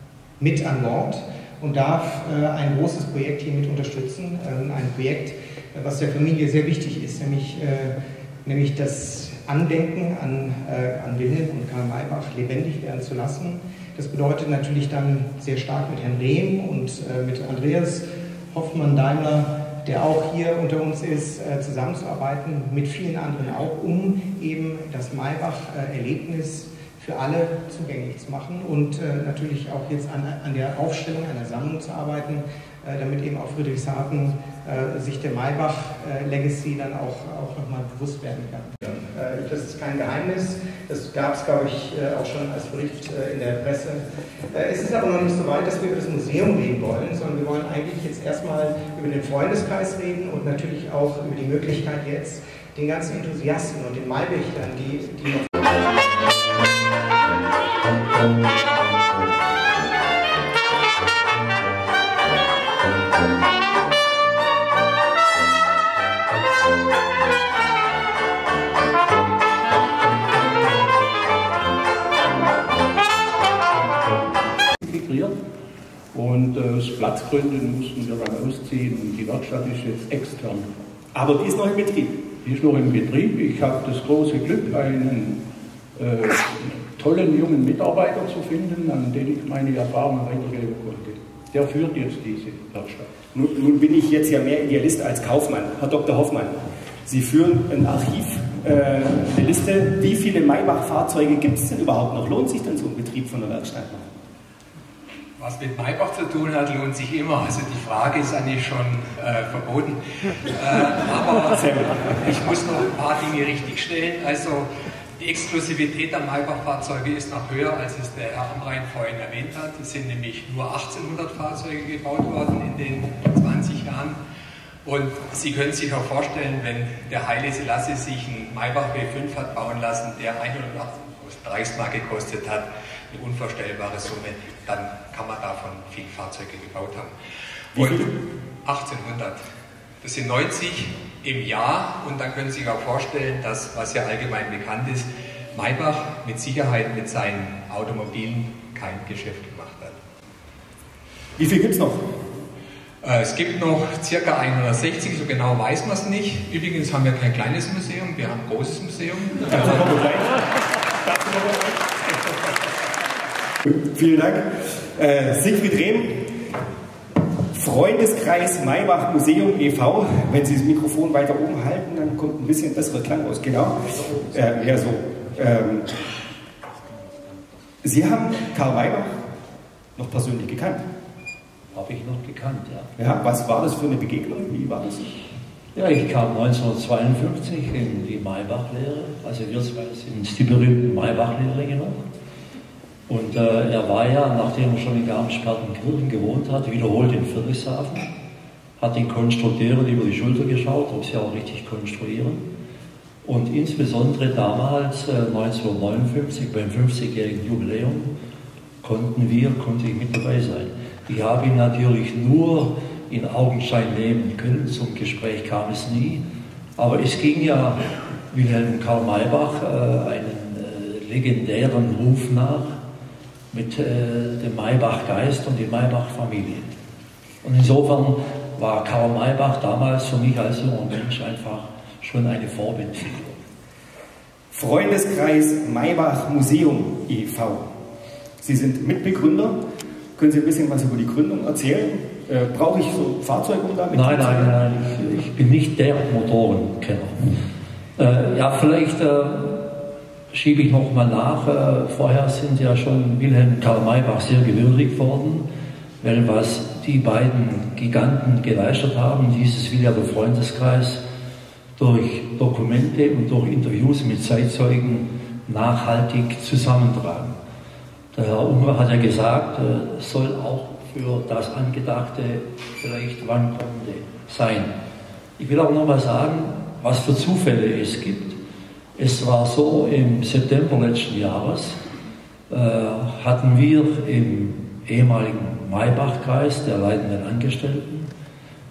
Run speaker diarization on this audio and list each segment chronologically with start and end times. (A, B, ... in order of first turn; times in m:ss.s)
0:00.4-0:55.5 A
1:13.8-1:14.3 B
1:14.8-1:15.4 B
1:16.1-1:20.7 B
1:21.1-1:22.2 C
1:22.4-1:25.4 B
1:26.0-1:33.2 B
1:33.3-1:44.1 C
1:45.4-1:54.7 D
1:51.6-1:52.0 C
1:55.2-2:04.2 D
2:04.8-2:17.1 D
2:17.7-2:18.1 D
2:17.8-2:18.1 C
2:18.6-2:19.4 D
2:20.0-2:30.0 D
2:31.4-2:32.0 C
2:33.0-2:40.1 D
2:39.5-2:40.3 C
2:43.6-2:46.3 C
2:47.5-2:55.9 C
2:57.8-2:59.2 C
3:00.0-3:00.8 C
3:01.7-3:02.9 E
3:03.0-3:05.2 C
3:05.7-3:12.0 E
3:13.1-3:18.1 E
3:18.8-3:22.5 E
3:23.2-3:28.1 E
3:28.8-3:36.2 E
3:36.8-3:42.8 E
3:43.5-3:46.7 E
3:47.4-3:53.4 E
3:54.5-3:57.7 C
3:58.4-3:59.5 C
4:00.2-4:04.5 C
4:03.9-4:07.4 E
4:08.0-4:15.5 E
4:16.0-4:21.0 E
4:21.8-4:27.3 E
4:28.1-4:34.7 E
4:35.4-4:38.4 E
4:39.0-4:41.8 E
4:42.5-4:48.1 E